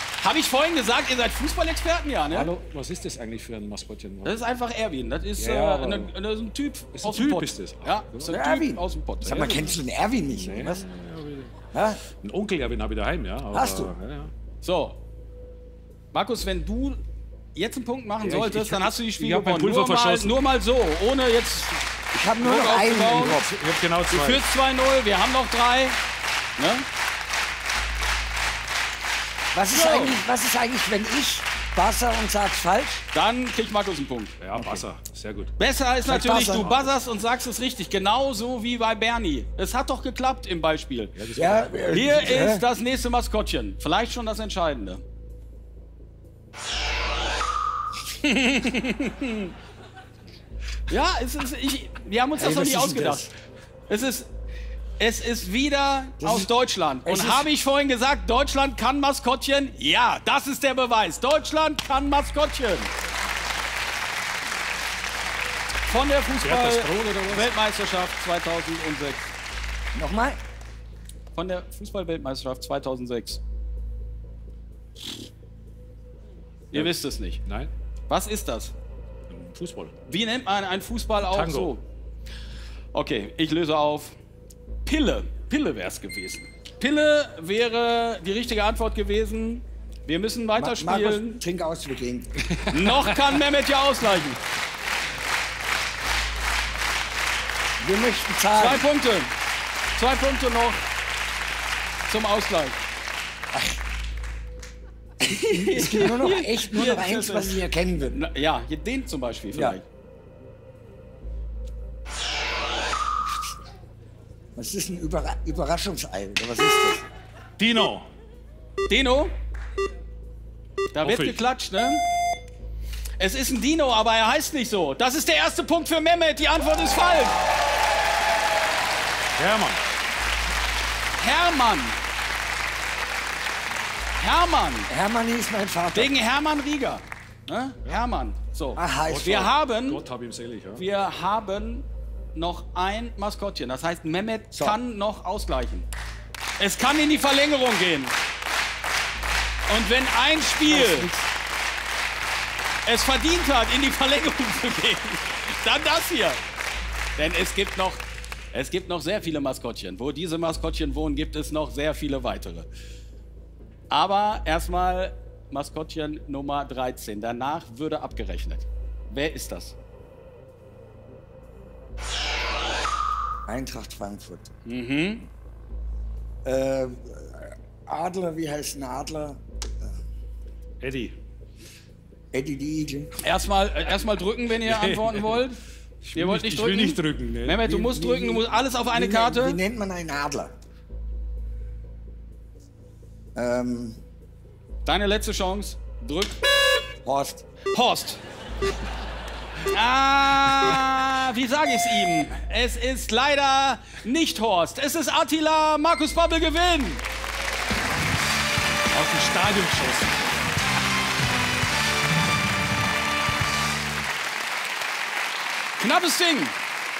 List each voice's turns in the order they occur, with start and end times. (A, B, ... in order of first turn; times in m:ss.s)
0:00.2-0:02.5 A
0:02.3-0:04.4 B
0:04.2-0:09.6 A
0:05.4-0:06.1 B
0:06.9-0:08.3 B
0:08.3-0:10.8 C
0:09.2-0:09.8 B
0:10.3-0:11.6 B
0:11.7-0:12.0 C
0:12.2-0:14.3 B
0:13.5-0:13.9 C
0:14.6-0:15.0 A
0:16.1-0:17.0 A
0:17.5-0:21.8 A
0:18.2-0:20.4 B
0:22.1-0:23.5 C
0:22.4-0:23.4 A
0:23.1-0:24.4 B
0:24.1-0:26.0 A
0:26.6-0:26.8 A
0:29.5-0:33.0 C
0:29.7-0:30.2 A
0:33.1-0:34.4 A
0:34.4-0:35.5 B
0:34.5-0:34.8 C
0:35.6-0:41.2 A
0:36.0-0:36.7 C
0:36.6-0:36.9 B
0:41.1-0:42.3 B
0:41.4-0:42.6 C
0:41.9-0:45.0 A
0:48.2-0:49.5 A
0:50.9-0:53.3 A
0:52.3-0:53.3 C
0:53.9-0:54.3 A
0:55.0-1:02.9 A
0:56.2-0:56.5 C
0:57.0-0:57.5 C
1:05.8-1:09.2 A
1:06.4-1:07.5 B
1:09.9-1:10.4 C
1:11.3-1:13.4 A
1:16.7-1:17.4 A
1:17.4-1:17.7 B
1:18.1-1:18.7 A
1:19.3-1:19.9 B
1:20.1-1:21.8 A
1:21.2-1:21.7 B
1:22.9-1:24.2 A
1:24.8-1:31.4 A
1:30.6-1:32.3 C
1:32.7-1:34.4 A
1:37.8-1:38.8 C
1:38.5-1:39.3 A
1:39.9-1:40.8 A
1:42.1-1:42.8 A
1:43.5-1:43.8 C
1:45.2-1:49.8 A
1:45.3-1:48.2 C
1:49.5-1:49.8 C
1:54.5-1:57.0 C
1:57.6-1:58.1 B
1:58.9-1:59.3 A
2:00.9-2:02.0 A
2:01.0-2:01.4 B
2:03.2-2:07.4 A
2:09.4-2:09.8 B
2:11.2-2:12.0 A
2:14.2-2:14.9 A
2:14.9-2:16.2 C
2:15.9-2:20.0 A
2:18.8-2:19.4 C
2:19.1-2:20.8 B
2:20.8-2:25.9 A
2:24.5-2:24.8 C
2:26.6-2:28.1 A
2:29.7-2:31.1 A
2:30.6-2:31.2 C
2:32.8-2:36.4 A
2:37.2-2:42.7 A
2:43.9-2:49.7 A
2:53.4-2:54.5 C
2:54.6-2:55.3 A
2:56.4-2:59.9 C
3:00.8-3:01.2 B
3:02.3-3:03.1 C
3:03.2-3:05.6 A
3:04.6-3:05.4 B
3:06.0-3:07.7 B
3:06.1-3:09.6 A
3:07.7-3:10.5 C
3:13.3-3:14.0 C
3:14.8-3:16.4 A
3:17.0-3:17.4 C
3:17.7-3:18.2 A
3:19.7-3:27.0 A
3:28.9-3:30.2 B
3:35.8-3:36.6 A